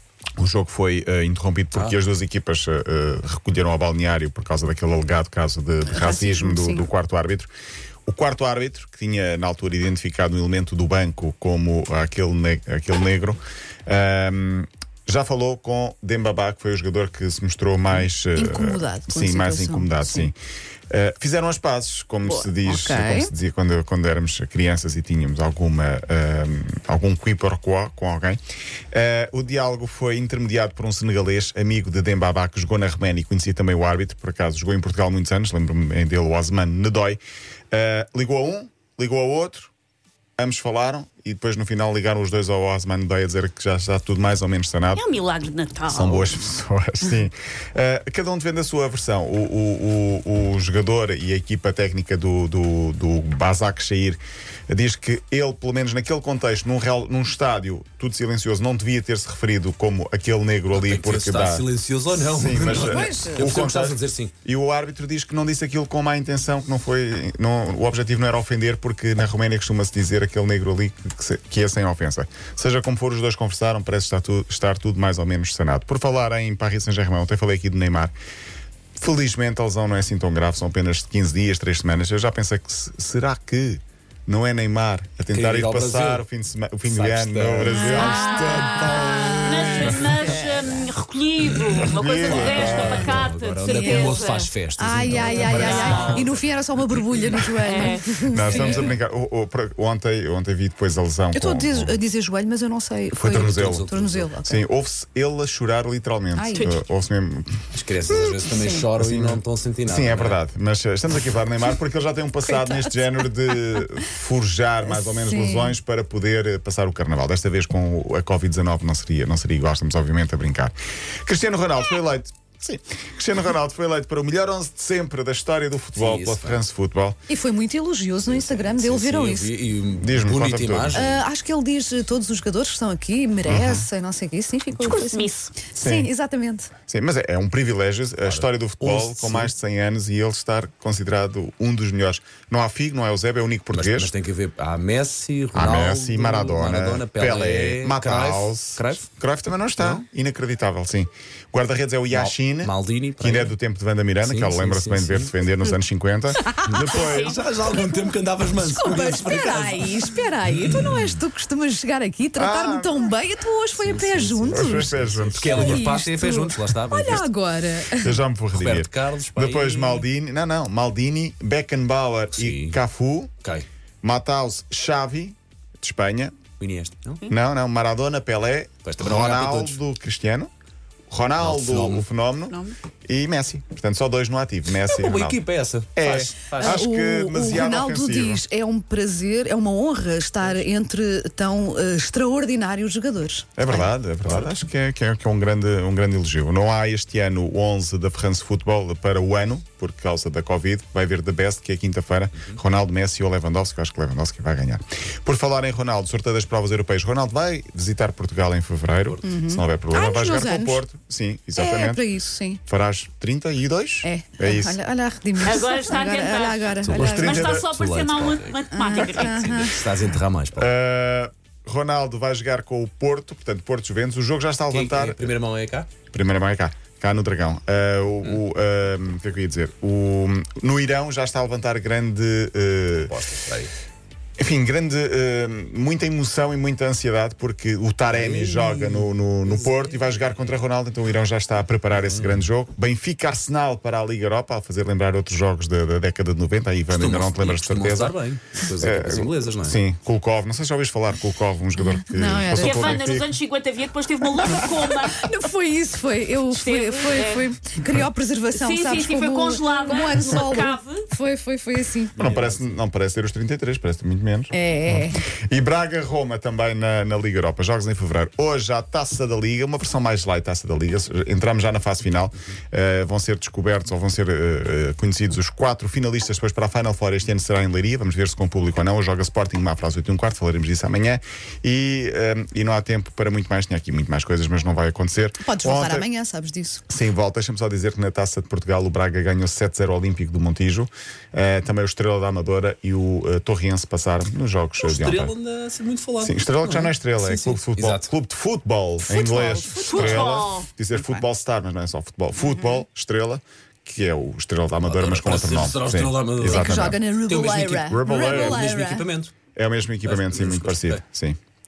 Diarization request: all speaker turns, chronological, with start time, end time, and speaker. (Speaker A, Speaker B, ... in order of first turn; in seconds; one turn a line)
Speaker A: 0.4-7.5
Speaker B: 5.9-6.9
Speaker A: 8.1-20.4
Speaker B: 18.4-20.3
Speaker A: 20.9-28.4
Speaker B: 22.2-23.3
Speaker A: 28.9-37.2
Speaker A: 37.7-39.7
Speaker A: 40.4-45.1
Speaker C: 44.9-46.4
Speaker A: 45.9-61.7
Speaker D: 60.7-64.3
Speaker A: 62.2-78.2
Speaker B: 62.7-63.5
Speaker A: 79.0-90.4
Speaker D: 85.3-86.3
Speaker D: 86.8-90.4
Speaker C: 87.6-94.5
Speaker B: 87.8-90.4
Speaker D: 91.5-96.4
Speaker A: 91.9-93.3
Speaker B: 92.5-93.1
Speaker B: 93.6-94.2
Speaker B: 94.8-98.9
Speaker C: 95.1-96.3
Speaker C: 97.7-98.9
Speaker A: 98.2-102.0
Speaker B: 101.3-104.6
Speaker A: 103.2-103.9
Speaker D: 103.3-104.3
Speaker A: 104.4-127.2
Speaker B: 106.3-106.7
Speaker C: 106.5-106.8
Speaker D: 107.7-110.4
Speaker B: 108.5-108.8
Speaker B: 112.4-113.6
Speaker B: 114.9-115.8
Speaker D: 126.0-126.6
Speaker B: 127.3-129.5
Speaker D: 128.3-131.2
Speaker A: 130.0-131.0
Speaker B: 130.9-136.7
Speaker A: 133.4-133.8
Speaker C: 134.8-135.5
Speaker A: 135.8-136.1
Speaker A: 136.9-144.1
Speaker D: 138.2-139.5
Speaker D: 143.7-149.1
Speaker A: 145.5-156.4
Speaker D: 149.8-150.0
Speaker D: 152.1-153.5
Speaker D: 154.2-155.3
Speaker B: 156.4-157.0
Speaker D: 156.6-161.2
Speaker C: 156.8-157.4
Speaker B: 158.6-168.2
Speaker A: 162.4-163.1
Speaker D: 163.8-167.3
Speaker A: 164.5-165.9
Speaker A: 168.0-173.3
Speaker D: 168.5-170.0
Speaker D: 172.3-172.8
Speaker D: 173.4-173.7
Speaker A: 174.0-176.4
Speaker D: 176.6-177.2
Speaker A: 177.3-180.5
Speaker D: 178.8-179.8
Speaker A: 181.1-185.4
Speaker D: 181.4-182.1
Speaker D: 184.7-186.8
Speaker A: 185.9-188.4
Speaker B: 186.6-193.9
Speaker A: 193.6-212.0
Speaker B: 209.2-210.8
Speaker B: 211.6-212.6
Speaker A: 212.7-214.8
Speaker B: 214.0-217.4
Speaker C: 215.4-219.8
Speaker D: 216.8-220.7
Speaker A: 216.9-217.7
Speaker B: 218.7-219.9
Speaker A: 220.6-225.3
Speaker D: 224.7-225.9
Speaker A: 226.1-233.1
Speaker D: 233.0-233.7
Speaker A: 234.4-248.2
Speaker D: 238.1-239.8
Speaker D: 241.9-242.4
Speaker D: 246.9-249.8
Speaker A: 248.8-253.3
Speaker B: 251.8-253.1
Speaker C: 252.6-255.3
Speaker B: 255.1-262.1
Speaker C: 256.5-257.4
Speaker C: 258.5-261.1
Speaker D: 262.1-262.8
Speaker A: 262.1-286.1
Speaker B: 264.5-265.2
Speaker B: 285.4-286.8
Speaker A: 286.9-295.3
Speaker D: 294.8-298.1
Speaker A: 296.2-307.0
Speaker B: 299.1-300.3
Speaker C: 299.8-300.7
Speaker D: 304.8-309.3
Speaker B: 306.4-309.1
Speaker A: 308.1-308.6
Speaker A: 309.6-311.4
Speaker D: 310.0-311.0